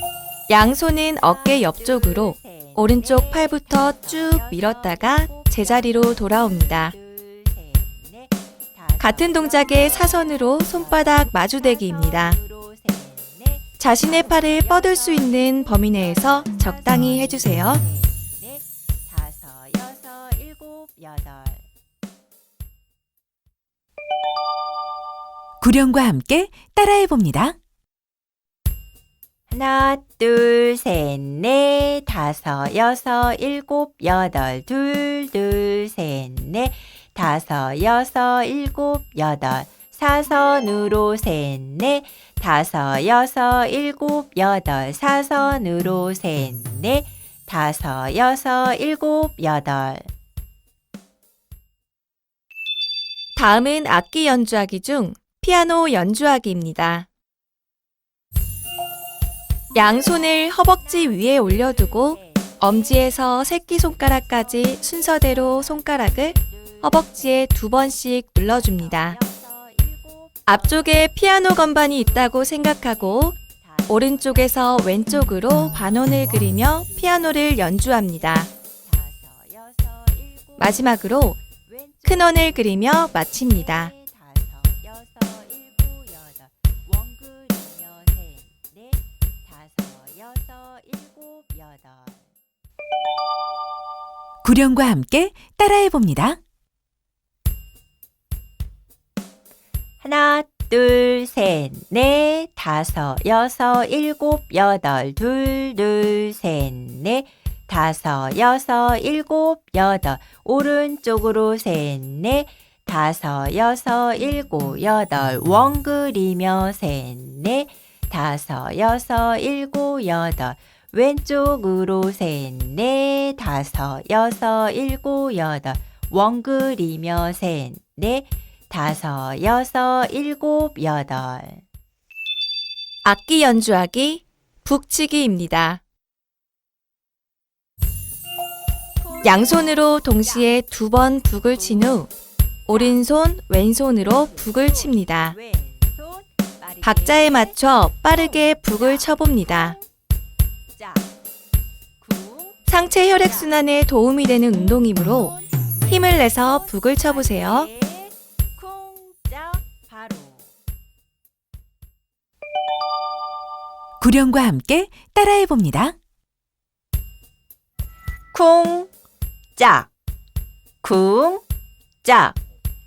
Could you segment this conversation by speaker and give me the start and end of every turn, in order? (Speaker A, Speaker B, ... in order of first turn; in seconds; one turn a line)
Speaker A: 0.5-6.9
Speaker B: 1.1-21.6
Speaker A: 9.0-12.4
Speaker A: 13.8-17.8
Speaker C: 25.6-27.6
Speaker B: 29.5-50.1
Speaker A: 53.4-57.1
Speaker A: 59.7-69.2
Speaker B: 60.5-67.6
Speaker B: 68.5-92.3
Speaker A: 70.5-78.5
Speaker A: 80.6-81.4
Speaker A: 82.0-83.9
Speaker C: 94.4-96.4
Speaker B: 100.0-131.6
Speaker A: 133.0-135.8
Speaker B: 139.0-140.5
Speaker A: 139.2-142.1
Speaker B: 141.6-142.0
Speaker B: 142.7-143.0
Speaker A: 142.7-145.4
Speaker B: 144.1-149.8
Speaker A: 146.8-149.8
Speaker B: 150.8-151.1
Speaker B: 152.0-153.6
Speaker A: 152.7-155.4
Speaker B: 154.7-160.5
Speaker A: 155.9-157.7
Speaker C: 164.0-166.0
Speaker B: 168.3-168.9
Speaker B: 169.6-169.9
Speaker B: 170.8-171.4
Speaker B: 172.0-172.4